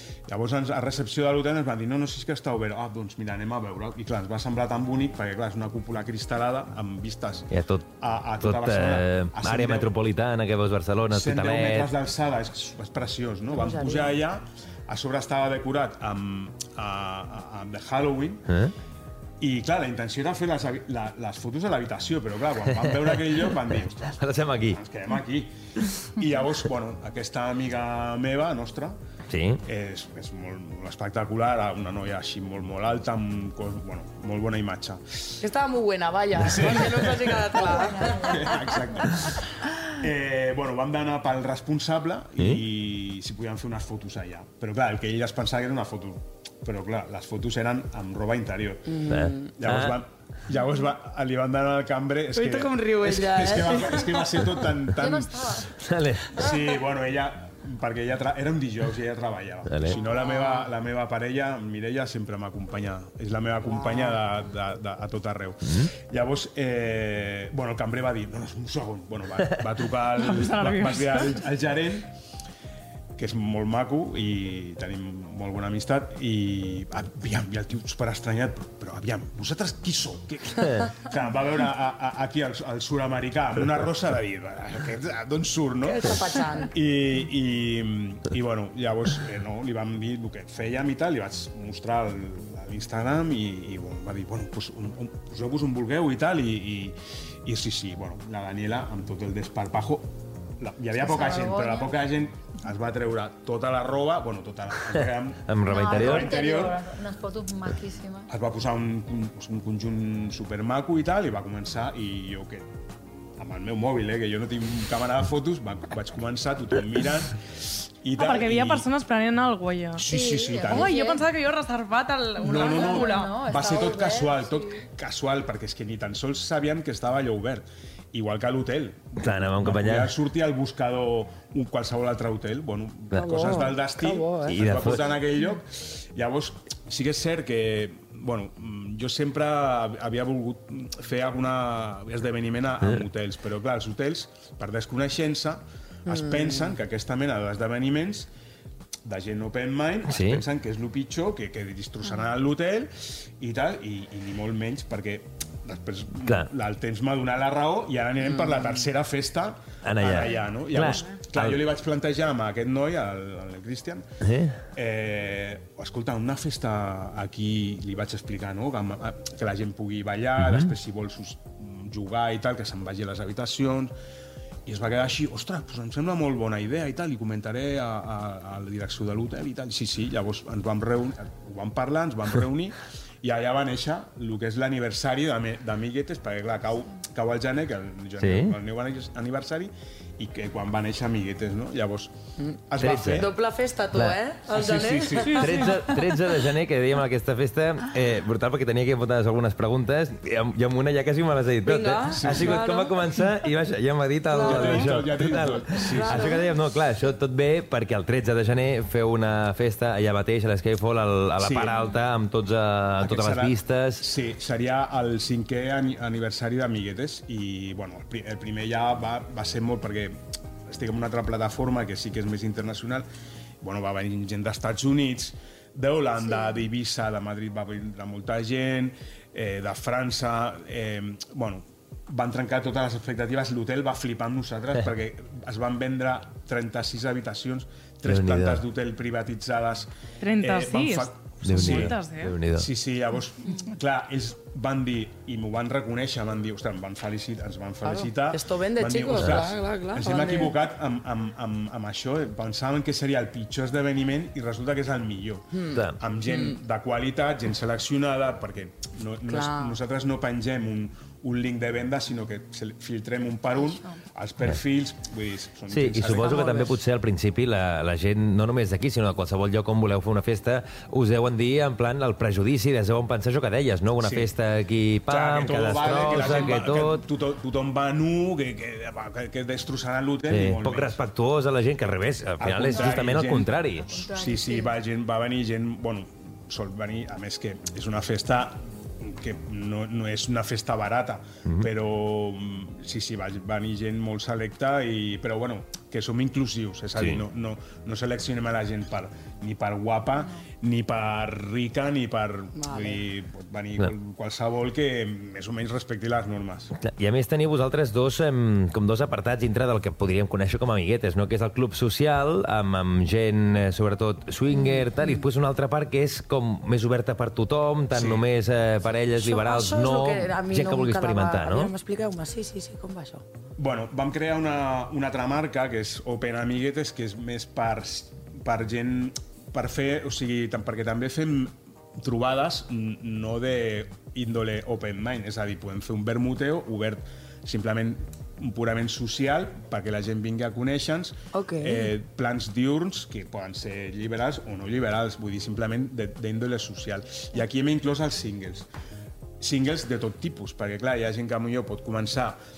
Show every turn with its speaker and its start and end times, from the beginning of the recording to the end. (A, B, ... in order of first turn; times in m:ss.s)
0:00.3-0:07.5 A
0:07.5-0:07.9 B
0:08.0-0:09.9 A
0:08.4-0:11.9 B
0:11.1-0:18.5 A
0:13.5-0:14.2 C
0:19.4-0:29.0 A
0:24.2-0:24.8 B
0:29.3-0:29.6 B
0:29.6-0:35.4 A
0:35.4-0:38.6 C
0:36.4-0:37.6 A
0:38.0-0:38.3 D
0:38.2-0:55.7 A
0:48.9-0:49.6 C
0:49.1-0:50.0 B
0:52.4-0:54.5 C
0:55.0-0:55.7 D
0:55.7-0:56.4 B
0:56.3-1:12.1 A
0:59.7-1:00.0 B
0:59.9-1:00.7 C
1:03.7-1:04.2 C
1:10.2-1:11.4 E
1:13.2-1:46.8 A
1:25.8-1:26.7 C
1:41.0-1:41.9 D
1:45.5-1:46.3 B
1:45.7-1:48.3 D
1:48.3-1:52.7 A
1:53.4-1:58.9 A
1:58.2-2:00.1 E
2:00.0-2:00.9 A
2:00.1-2:01.2 D
2:00.7-2:03.3 E
2:02.4-2:28.3 A
2:02.5-2:04.8 D
2:09.2-2:10.1 B
2:13.1-2:14.6 C
2:14.4-2:15.1 B
2:26.1-2:26.8 C
2:29.0-2:44.1 A
2:30.1-2:30.4 B
2:38.2-2:38.7 C
2:39.8-2:41.6 B
2:44.2-2:44.6 B
2:44.7-2:53.9 A
2:50.4-2:50.7 B
2:54.7-3:12.2 A
3:08.2-3:08.6 B
3:12.4-3:15.9 C
3:12.7-3:13.3 A
3:12.8-3:13.3 B
3:13.9-3:14.2 B
3:14.5-3:15.7 A
3:15.4-3:34.0 B
3:15.4-3:15.7 E
3:21.6-3:23.3 C
3:22.1-3:22.6 A
3:24.3-3:24.9 C
3:24.4-3:26.4 A
3:25.9-3:26.5 C
3:31.4-3:31.8 A
3:33.0-3:43.1 A
3:43.6-4:02.0 A
3:58.1-3:58.6 B
4:00.2-4:02.4 E
4:01.4-4:02.7 B
4:02.5-4:26.4 A
4:07.8-4:10.5 C
4:09.1-4:09.4 B
4:15.5-4:16.6 C
4:19.3-4:19.8 C
4:23.5-4:24.0 D
4:25.7-4:37.0 B
4:26.2-4:26.8 C
4:34.0-4:34.3 A
4:35.1-4:41.0 A
4:40.3-4:43.9 B
4:42.4-5:06.7 A
4:43.8-4:44.8 D
4:57.0-4:57.2 B
5:02.6-5:03.0 C
5:06.8-5:21.7 B
5:14.5-5:15.3 C
5:17.9-5:18.2 A
5:19.2-5:23.2 C
5:23.6-5:48.7 A
5:41.3-5:41.9 C
5:49.4-5:52.4 A